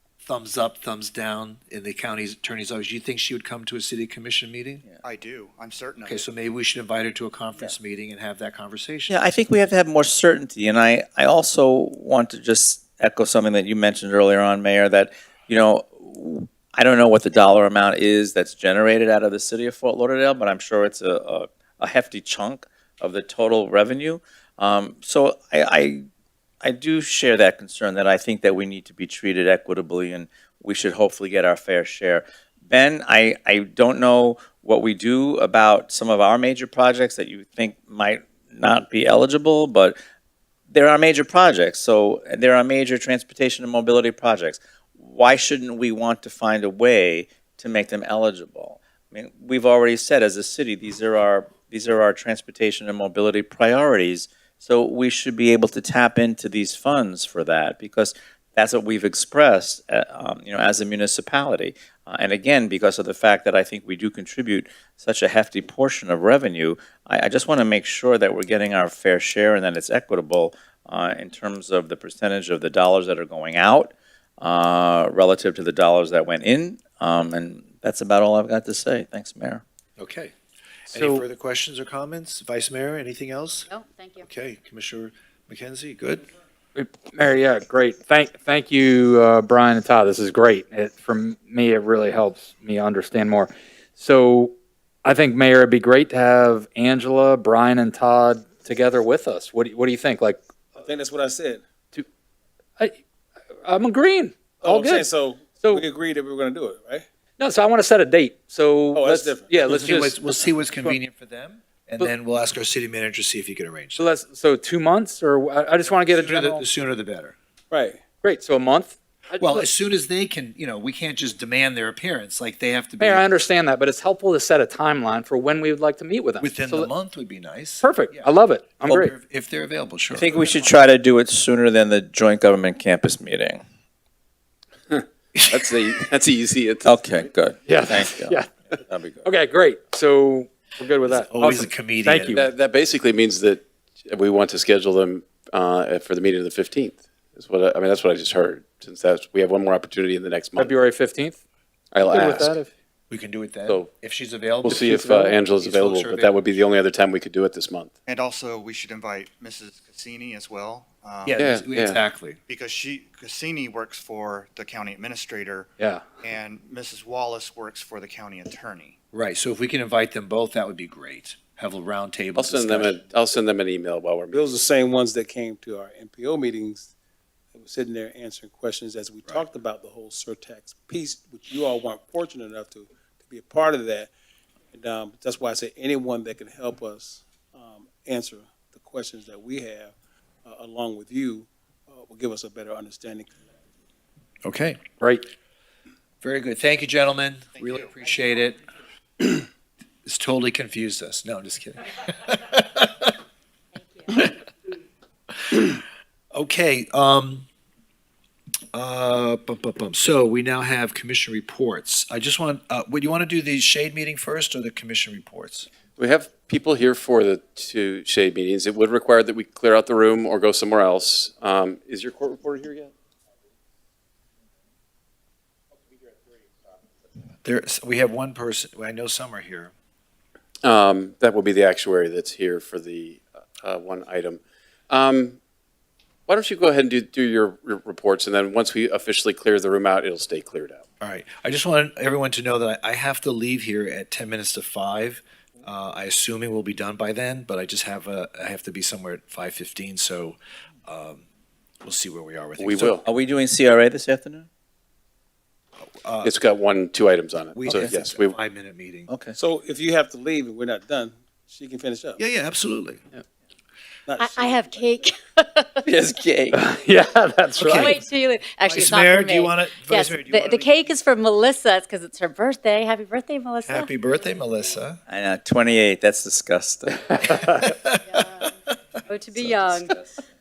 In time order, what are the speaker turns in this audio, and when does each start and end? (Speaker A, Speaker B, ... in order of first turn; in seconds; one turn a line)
Speaker A: 0.2-4.8
Speaker B: 5.0-6.2
Speaker A: 6.0-9.2
Speaker C: 9.1-26.1
Speaker C: 26.6-40.0
Speaker C: 40.7-79.6
Speaker A: 80.0-80.3
Speaker D: 80.9-81.2
Speaker A: 80.9-83.7
Speaker E: 83.7-84.3
Speaker A: 84.2-86.3
Speaker D: 86.8-100.4
Speaker F: 100.8-101.6
Speaker D: 103.6-105.1
Speaker F: 104.6-107.0
Speaker D: 105.6-105.8
Speaker D: 107.4-110.2
Speaker F: 108.9-109.6
Speaker A: 109.6-114.0
Speaker D: 113.9-116.6
Speaker A: 115.9-117.3
Speaker F: 117.7-118.0
Speaker D: 118.2-119.7
Speaker A: 119.4-123.3
Speaker D: 123.0-126.9
Speaker A: 126.4-130.7
Speaker D: 127.8-129.1
Speaker C: 130.1-133.6
Speaker G: 134.9-137.2
Speaker A: 135.3-135.7
Speaker C: 136.8-139.3
Speaker D: 137.7-138.5
Speaker D: 139.2-142.5
Speaker A: 141.1-142.4
Speaker G: 142.3-150.8
Speaker D: 150.6-151.4
Speaker G: 151.9-152.5
Speaker D: 152.0-152.7
Speaker A: 153.1-156.7
Speaker G: 154.6-157.9
Speaker D: 154.9-155.4
Speaker B: 158.1-161.4
Speaker A: 161.2-162.4
Speaker G: 161.4-162.0
Speaker B: 162.5-169.0
Speaker D: 165.8-166.1
Speaker A: 169.1-173.0
Speaker G: 172.3-174.6
Speaker F: 174.3-176.9
Speaker F: 177.6-184.1
Speaker F: 184.7-189.9
Speaker F: 190.4-193.3
Speaker A: 194.4-194.8
Speaker D: 195.0-195.2
Speaker A: 196.2-198.6
Speaker B: 197.6-197.9
Speaker A: 200.0-203.1
Speaker E: 203.7-204.3
Speaker A: 205.5-205.8
Speaker A: 206.3-207.4
Speaker A: 208.7-215.7
Speaker G: 216.0-222.9
Speaker A: 227.4-229.7
Speaker G: 230.6-235.4
Speaker G: 236.3-240.8
Speaker A: 241.0-251.2
Speaker A: 251.8-253.0
Speaker G: 252.6-253.0
Speaker C: 253.0-254.5
Speaker A: 255.9-256.3
Speaker G: 256.2-258.3
Speaker A: 257.5-259.1
Speaker C: 259.1-259.4
Speaker F: 259.4-262.2
Speaker A: 262.2-263.0
Speaker F: 264.1-264.8
Speaker E: 264.2-265.9
Speaker C: 265.8-266.6
Speaker D: 266.5-267.9
Speaker A: 267.6-268.1
Speaker E: 267.6-274.4
Speaker A: 268.6-270.9
Speaker A: 273.6-275.0
Speaker C: 275.1-277.3
Speaker A: 277.3-278.4
Speaker E: 278.0-280.0
Speaker C: 279.4-280.2